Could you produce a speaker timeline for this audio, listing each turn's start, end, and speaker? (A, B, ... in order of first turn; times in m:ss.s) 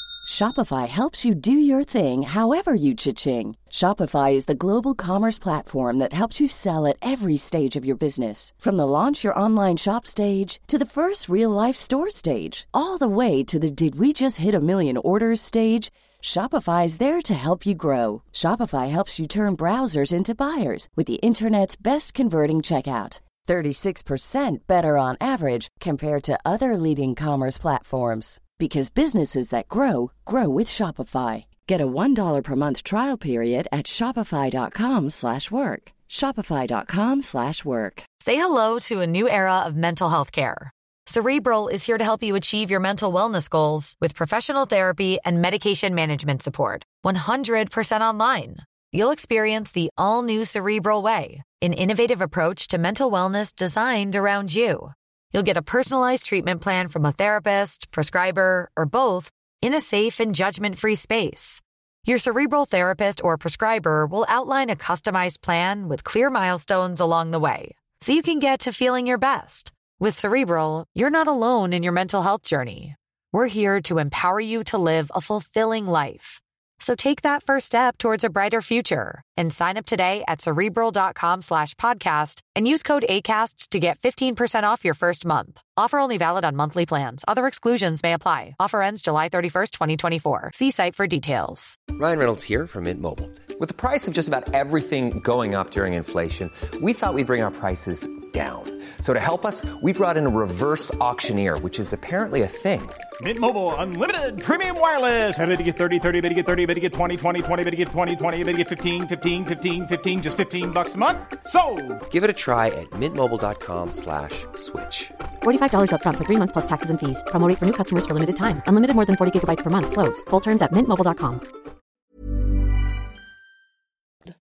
0:00.2-0:38.1 A
0:38.2-1:31.8 B
1:32.0-1:43.0 C
1:43.2-1:52.0 D
1:52.1-1:55.1 C
1:55.4-2:01.4 E